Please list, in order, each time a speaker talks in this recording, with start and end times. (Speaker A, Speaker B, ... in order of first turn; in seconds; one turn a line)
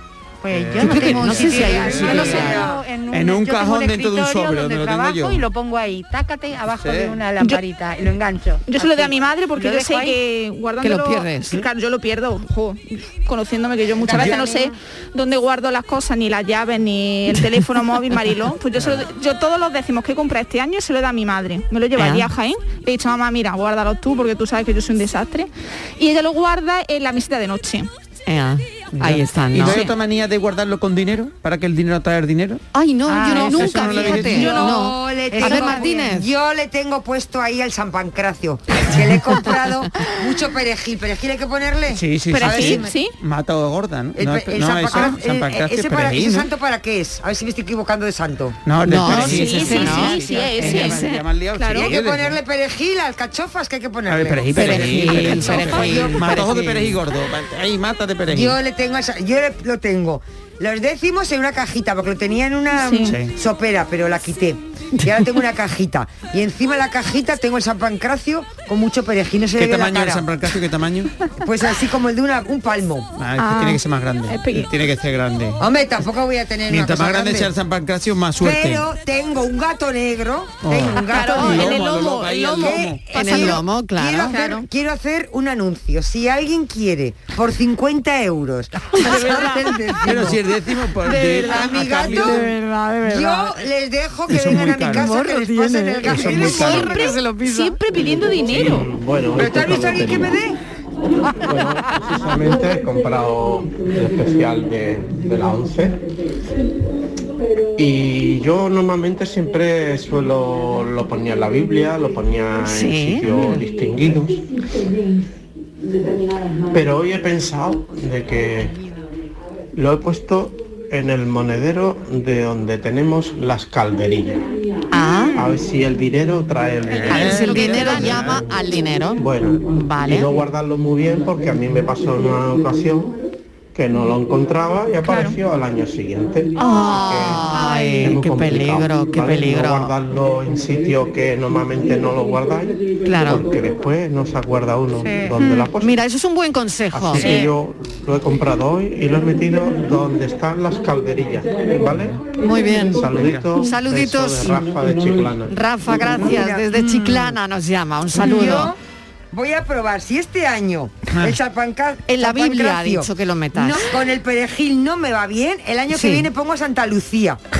Speaker A: 0.4-10.2
Speaker B: 0.5-5.5
Speaker C: 0.8-2.6
Speaker D: 2.0-2.6
Speaker B: 6.8-7.2
Speaker D: 8.7-27.9
Speaker C: 10.8-11.6
Speaker A: 14.1-14.5
Speaker B: 14.2-14.4
Speaker C: 22.0-22.3
Speaker C: 28.3-29.9
Speaker B: 28.9-32.6
Speaker D: 29.6-29.9
Speaker C: 32.7-36.3
Speaker A: 33.1-36.1
Speaker B: 33.5-34.5
Speaker D: 34.3-34.7
Speaker E: 34.4-43.0
Speaker B: 41.9-46.5
Speaker D: 42.3-43.1
Speaker E: 44.2-48.6
Speaker B: 48.6-52.4
Speaker C: 48.9-51.3
Speaker D: 49.0-51.9
Speaker E: 51.7-55.1
Speaker B: 54.1-58.6
Speaker C: 54.5-57.0
Speaker D: 55.2-56.3
Speaker E: 58.3-70.3
Speaker D: 62.8-63.2
Speaker B: 63.1-63.3
Speaker B: 69.6-71.1
Speaker E: 71.4-73.1
Speaker B: 73.2-75.6
Speaker D: 73.4-74.7
Speaker E: 75.6-77.5
Speaker B: 76.7-78.9
Speaker E: 78.4-90.4
Speaker B: 80.6-83.1
Speaker D: 81.1-83.6
Speaker A: 82.3-82.7
Speaker C: 83.1-84.4
Speaker D: 84.2-84.7
Speaker B: 90.0-93.3
Speaker E: 91.1-92.5
Speaker E: 93.1-97.1
Speaker B: 94.3-95.2
Speaker C: 94.8-97.8
Speaker B: 96.0-96.8
Speaker D: 96.6-98.9
Speaker F: 98.3-100.4
Speaker E: 99.3-100.6
Speaker F: 101.4-106.0
Speaker F: 107.8-114.4
Speaker C: 112.6-113.5
Speaker F: 116.7-118.8
Speaker F: 119.7-124.4
Speaker C: 124.9-125.4
Speaker F: 125.3-127.5
Speaker B: 127.0-128.4
Speaker C: 127.0-130.3
Speaker D: 127.2-128.2
Speaker F: 129.2-133.2
Speaker F: 133.7-146.0
Speaker C: 136.6-139.9
Speaker D: 137.5-138.1
Speaker C: 143.1-143.5
Speaker A: 145.0-145.4
Speaker C: 145.8-147.4
Speaker F: 146.9-152.2
Speaker A: 147.2-147.5
Speaker C: 152.4-158.7
Speaker F: 152.9-155.6
Speaker B: 153.2-153.5
Speaker E: 155.9-157.0
Speaker E: 158.2-158.8
Speaker E: 159.3-167.4
Speaker C: 162.1-163.9
Speaker C: 165.9-166.3